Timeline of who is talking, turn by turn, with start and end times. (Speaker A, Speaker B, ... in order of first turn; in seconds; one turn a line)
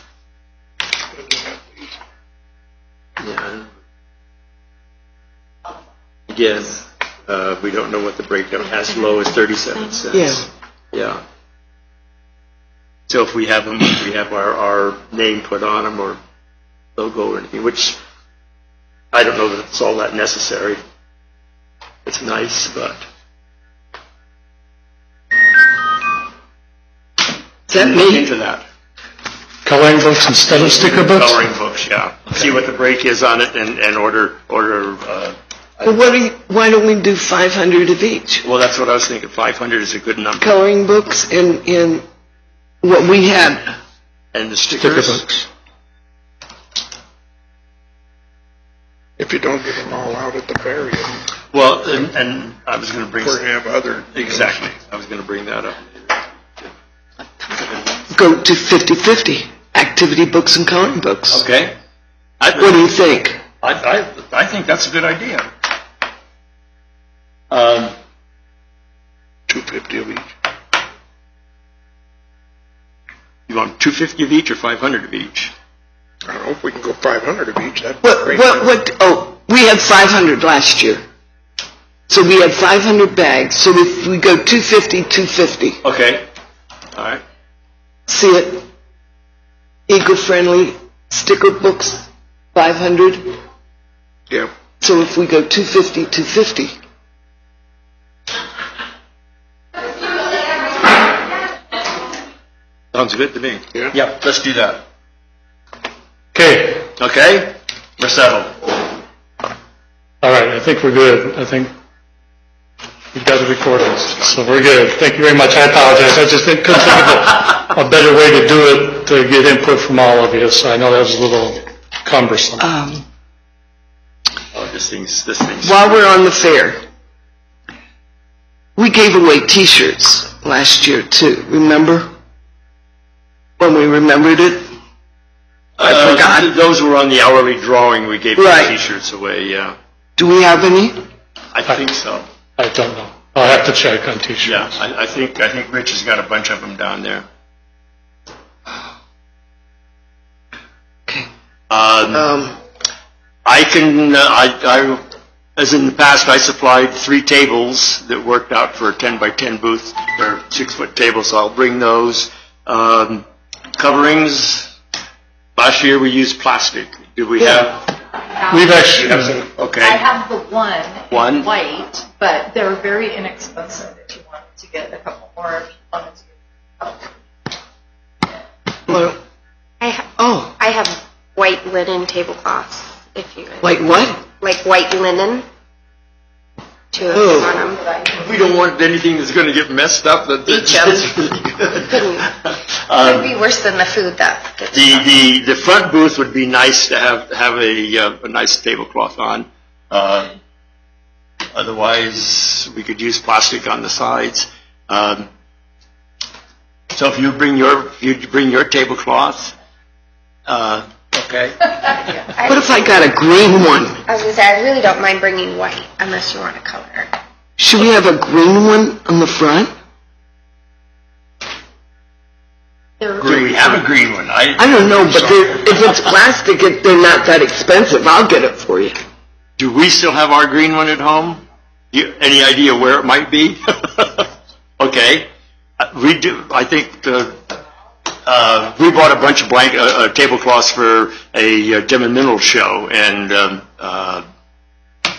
Speaker A: 1.3-1.5
Speaker B: 3.2-3.7
Speaker B: 6.3-11.2
Speaker C: 10.1-10.4
Speaker B: 13.1-16.2
Speaker B: 17.0-18.0
Speaker B: 19.1-20.8
Speaker B: 22.0-23.0
Speaker C: 27.7-28.3
Speaker B: 27.7-28.6
Speaker D: 29.6-31.4
Speaker B: 30.4-36.1
Speaker C: 35.8-38.4
Speaker B: 38.4-40.5
Speaker C: 40.4-42.0
Speaker C: 42.8-43.7
Speaker B: 44.3-45.2
Speaker D: 44.8-45.4
Speaker A: 49.2-51.2
Speaker B: 51.5-53.5
Speaker A: 53.2-54.6
Speaker B: 54.1-55.8
Speaker B: 57.6-57.9
Speaker C: 58.1-61.4
Speaker B: 61.3-61.7
Speaker B: 62.4-62.9
Speaker C: 62.5-63.4
Speaker B: 63.6-65.4
Speaker B: 67.5-67.9
Speaker A: 69.5-70.3
Speaker B: 73.5-75.5
Speaker A: 76.3-78.6
Speaker C: 78.0-81.0
Speaker C: 82.1-85.8
Speaker B: 85.8-86.2
Speaker B: 86.9-87.2
Speaker C: 88.1-88.7
Speaker C: 89.9-93.3
Speaker C: 94.8-96.7
Speaker B: 102.9-104.8
Speaker D: 106.3-106.9
Speaker B: 107.0-108.5
Speaker D: 110.2-111.7
Speaker D: 113.1-122.6
Speaker B: 114.1-114.4
Speaker C: 122.6-123.0
Speaker B: 124.5-126.1
Speaker C: 125.6-126.8
Speaker C: 128.8-132.1
Speaker C: 133.6-134.6
Speaker B: 135.8-139.8
Speaker C: 135.8-136.5
Speaker C: 138.3-138.8
Speaker C: 140.2-141.0
Speaker B: 141.5-142.2
Speaker D: 142.6-144.7
Speaker B: 144.4-147.2
Speaker B: 151.7-152.3
Speaker C: 152.1-152.6
Speaker B: 153.4-155.0
Speaker B: 155.6-163.2
Speaker B: 163.8-164.7
Speaker B: 165.6-167.9
Speaker C: 167.4-167.6
Speaker E: 168.3-169.0
Speaker D: 168.5-169.5
Speaker B: 169.0-170.0
Speaker E: 169.8-177.1
Speaker B: 171.1-171.5
Speaker C: 178.9-179.2
Speaker F: 179.8-183.8
Speaker C: 180.2-180.5
Speaker C: 183.6-184.2
Speaker F: 184.4-185.4
Speaker F: 186.9-187.9
Speaker C: 187.1-187.5
Speaker B: 188.0-193.3
Speaker F: 190.4-191.1
Speaker F: 191.8-192.3
Speaker F: 193.0-195.1
Speaker B: 194.7-200.3
Speaker B: 201.5-205.2
Speaker B: 206.9-209.5
Speaker B: 210.5-212.2
Speaker F: 212.3-213.1
Speaker C: 212.4-214.0
Speaker F: 214.0-217.1
Speaker C: 217.6-219.7
Speaker E: 223.0-223.9
Speaker B: 223.2-225.9
Speaker C: 224.6-228.9
Speaker B: 229.6-234.3
Speaker B: 234.8-235.3
Speaker B: 235.8-237.4
Speaker B: 238.2-244.2